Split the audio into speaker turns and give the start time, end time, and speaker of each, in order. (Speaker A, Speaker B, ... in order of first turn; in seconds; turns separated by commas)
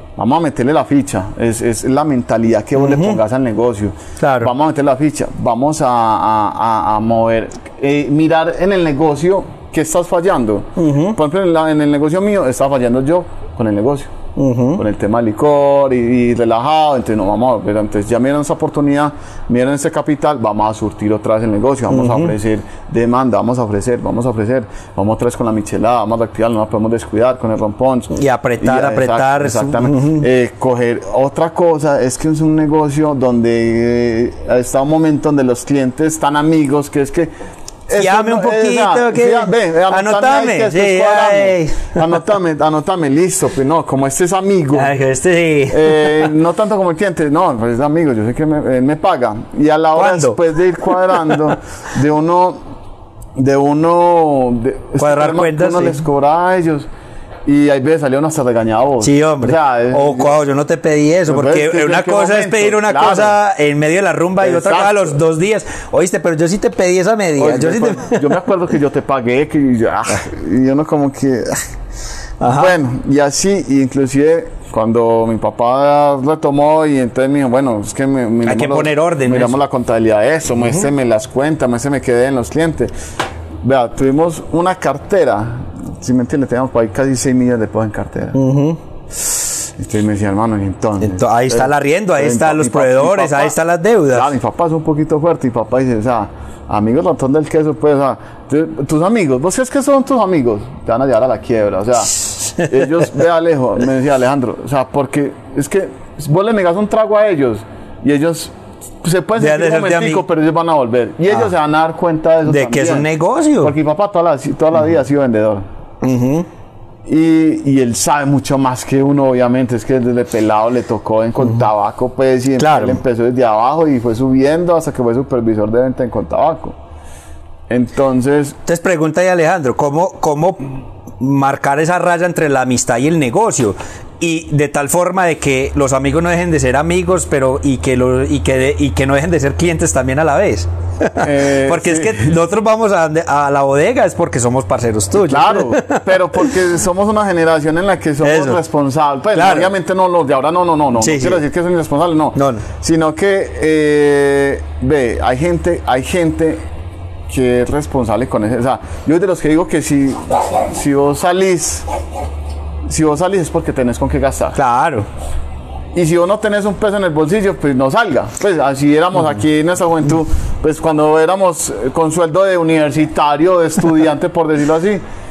Speaker A: 0.2-14.1, Speaker B: 2.8-3.2, Speaker B: 4.2-4.5, Speaker B: 10.8-11.2, Speaker B: 14.4-14.8, Speaker A: 14.8-37.3, Speaker B: 21.9-22.3, Speaker B: 28.1-30.3, Speaker A: 37.9-44.9, Speaker B: 38.0-42.0, Speaker B: 44.7-46.3, Speaker A: 45.7-52.6, Speaker B: 50.0-51.6, Speaker A: 53.4-56.9, Speaker B: 55.0-56.0, Speaker A: 57.5-60.4, Speaker B: 59.0-68.3, Speaker A: 61.3-63.4, Speaker A: 64.4-65.2, Speaker A: 67.4-71.8, Speaker B: 72.4-72.8, Speaker A: 72.4-82.9, Speaker B: 78.5-79.6, Speaker A: 83.6-88.4, Speaker B: 88.3-88.8, Speaker A: 89.2-93.6, Speaker B: 91.0-94.3, Speaker A: 94.1-113.1, Speaker B: 102.2-103.1, Speaker B: 109.4-110.2, Speaker B: 112.5-113.7, Speaker A: 113.6-115.7, Speaker B: 116.0-116.5, Speaker A: 117.1-126.8, Speaker B: 122.6-123.0, Speaker A: 127.7-128.6, Speaker B: 128.7-130.6, Speaker B: 131.2-146.6, Speaker A: 141.2-142.3, Speaker A: 145.2-156.6, Speaker B: 148.2-148.6, Speaker B: 149.3-149.7, Speaker B: 151.0-151.4, Speaker B: 152.3-152.7, Speaker A: 157.3-161.9, Speaker A: 162.9-164.6, Speaker B: 164.6-165.1, Speaker A: 165.9-175.0